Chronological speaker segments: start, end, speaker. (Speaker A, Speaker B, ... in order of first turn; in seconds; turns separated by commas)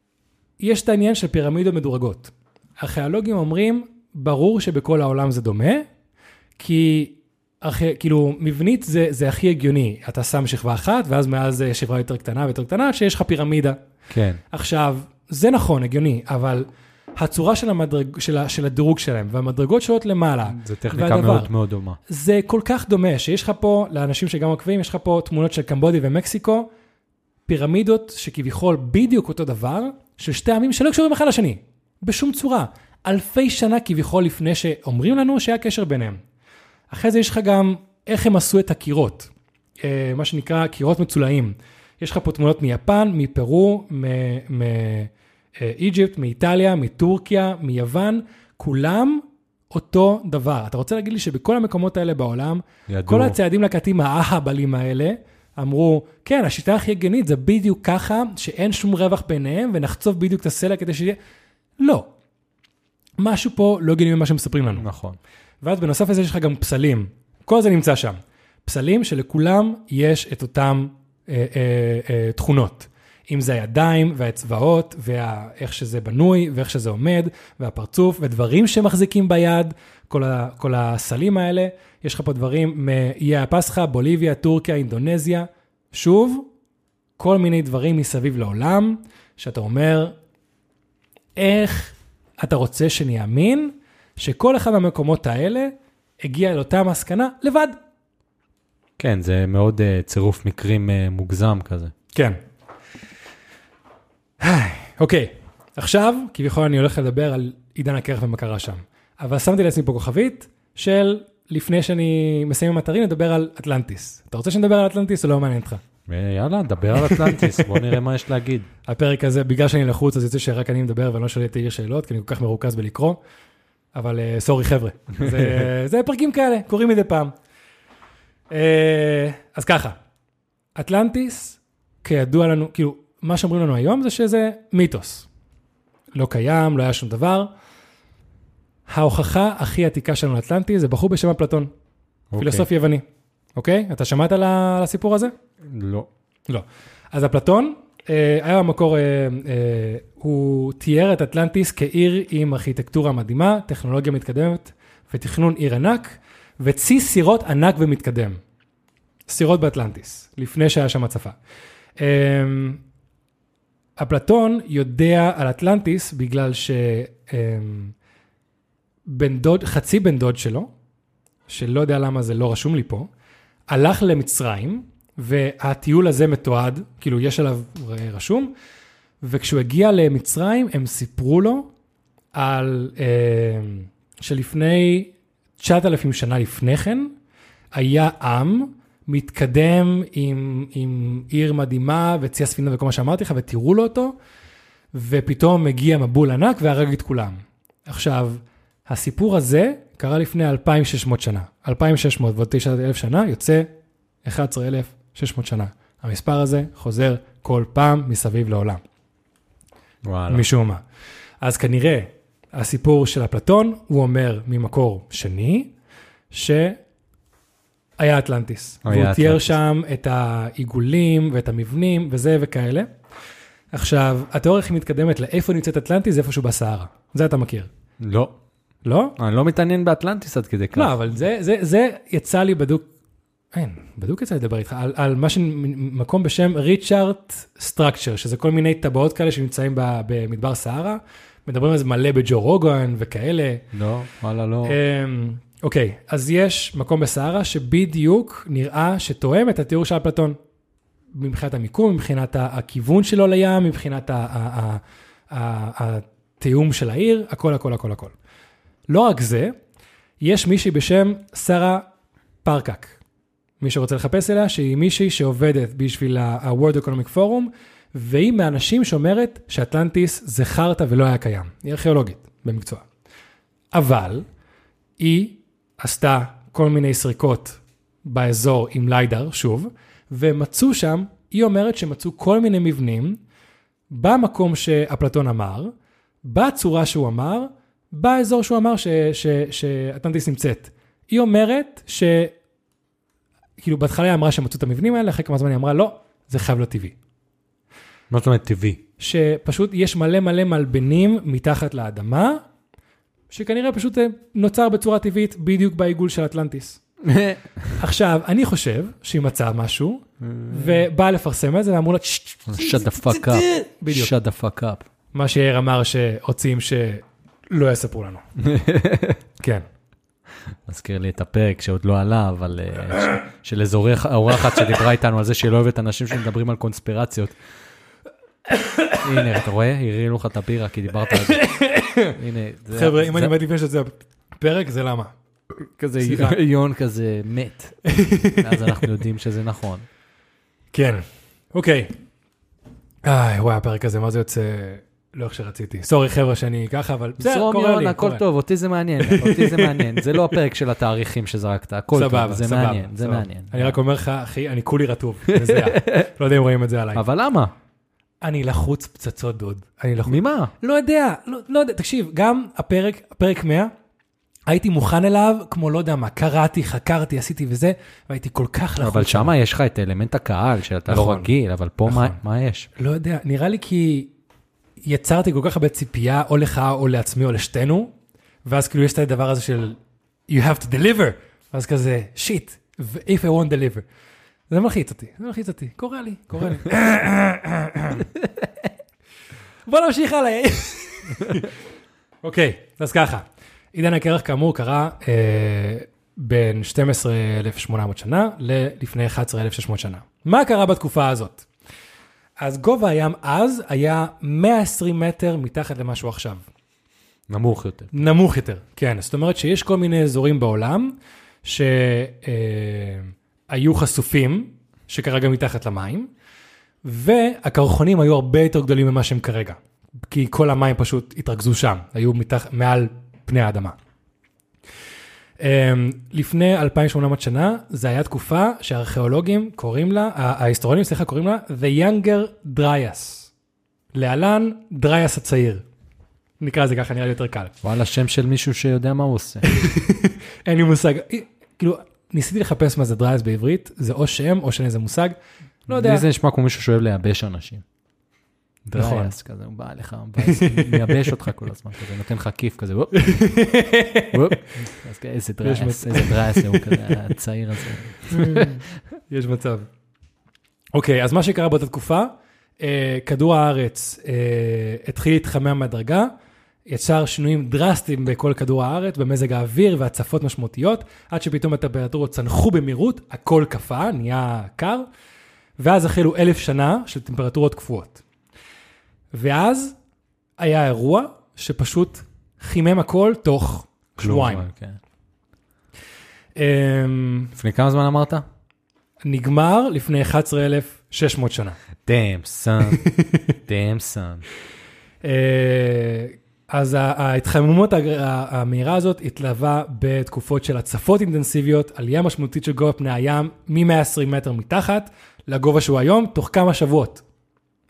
Speaker A: 0.6-5.8, Speaker A: 6.6-13.8, Speaker B: 14.1-14.4, Speaker A: 14.5-21.5, Speaker B: 20.5-22.0, Speaker A: 22.1-26.7, Speaker A: 27.5-36.2, Speaker A: 36.9-39.3, Speaker A: 39.8-61.2, Speaker B: 52.9-53.4, Speaker A: 61.8-62.1, Speaker A: 63.2-64.9, Speaker B: 64.8-65.2, Speaker A: 65.6-86.5, Speaker A: 87.2-90.1, Speaker A: 91.4-97.8, Speaker B: 99.0-101.9, Speaker A: 104.4-115.8, Speaker B: 116.1-118.7, Speaker A: 118.9-123.2, Speaker A: 123.9-127.3, Speaker B: 125.2-125.6, Speaker A: 128.5-130.0, Speaker A: 130.7-135.3, Speaker A: 136.1-137.5, Speaker A: 138.9-141.7, Speaker B: 142.3-142.7, Speaker A: 142.4-143.0, Speaker A: 143.6-145.3, Speaker B: 145.6-146.1, Speaker A: 146.5-158.4, Speaker A: 159.3-161.3, Speaker A: 162.0-162.8, Speaker A: 164.0-167.9, Speaker A: 169.1-170.7, Speaker A: 171.5-173.1, Speaker A: 173.7-178.5, Speaker A: 179.2-181.7, Speaker A: 182.3-187.1, Speaker A: 187.7-194.2, Speaker A: 194.9-203.7, Speaker A: 204.2-208.8, Speaker B: 210.0-210.5, Speaker A: 210.3-210.8, Speaker A: 211.4-215.7, Speaker A: 216.3-216.8, Speaker A: 218.0-222.9, Speaker B: 218.8-219.6, Speaker A: 223.7-227.7, Speaker B: 228.0-228.3, Speaker A: 228.8-229.1, Speaker B: 229.2-230.9, Speaker A: 230.7-232.9, Speaker A: 233.5-243.6, Speaker B: 243.7-244.8, Speaker A: 244.6-250.4, Speaker A: 251.1-258.1, Speaker A: 258.9-259.5, Speaker A: 260.2-261.9, Speaker A: 262.4-263.0, Speaker A: 263.6-272.8, Speaker A: 273.7-274.2, Speaker A: 275.0-283.2, Speaker A: 283.9-285.7, Speaker A: 286.2-292.3, Speaker A: 293.6-296.9, Speaker B: 298.1-298.8, Speaker A: 299.0-302.4, Speaker A: 303.3-306.8, Speaker B: 307.0-307.8, Speaker A: 307.8-314.1, Speaker B: 310.2-310.8, Speaker B: 312.5-314.8, Speaker A: 315.1-318.2, Speaker B: 318.4-319.2, Speaker A: 319.4-319.6, Speaker B: 320.6-327.4, Speaker A: 328.8-329.0, Speaker B: 329.0-331.5, Speaker A: 331.1-332.1, Speaker B: 332.1-333.3, Speaker A: 332.7-335.1, Speaker B: 335.8-339.9, Speaker A: 336.0-336.4, Speaker A: 337.9-338.6, Speaker A: 340.7-341.9, Speaker A: 343.0-348.2, Speaker B: 347.2-353.8, Speaker A: 349.0-350.2, Speaker A: 351.9-357.0, Speaker B: 355.3-356.1, Speaker B: 356.9-357.5, Speaker A: 358.2-363.7, Speaker B: 360.1-360.5, Speaker A: 364.5-369.3, Speaker B: 368.8-372.7, Speaker A: 370.9-371.3, Speaker A: 371.9-372.2, Speaker A: 372.8-374.1, Speaker A: 374.8-377.9, Speaker A: 378.4-383.8, Speaker A: 384.5-388.1, Speaker B: 388.1-388.5, Speaker A: 389.6-391.5, Speaker A: 392.2-401.5, Speaker A: 402.4-406.4, Speaker B: 407.3-407.9, Speaker A: 407.9-416.1, Speaker A: 416.8-419.6, Speaker A: 420.1-423.7, Speaker A: 425.4-433.3, Speaker A: 433.9-435.6, Speaker A: 436.4-437.5, Speaker B: 437.6-439.4, Speaker A: 439.4-445.1, Speaker A: 445.7-446.0, Speaker B: 445.7-447.6, Speaker B: 448.7-453.5, Speaker A: 448.7-449.1, Speaker A: 450.2-450.8, Speaker A: 452.9-454.4, Speaker B: 454.1-458.6, Speaker A: 455.4-457.0, Speaker A: 458.1-459.6, Speaker A: 460.7-466.1, Speaker A: 466.6-474.9, Speaker A: 475.6-478.0, Speaker A: 479.1-479.8, Speaker A: 480.4-484.5, Speaker B: 484.0-484.8, Speaker A: 486.4-487.3, Speaker B: 487.3-488.2, Speaker A: 489.0-491.6, Speaker B: 491.8-492.8, Speaker A: 492.7-493.3, Speaker B: 493.4-494.2, Speaker A: 495.0-507.0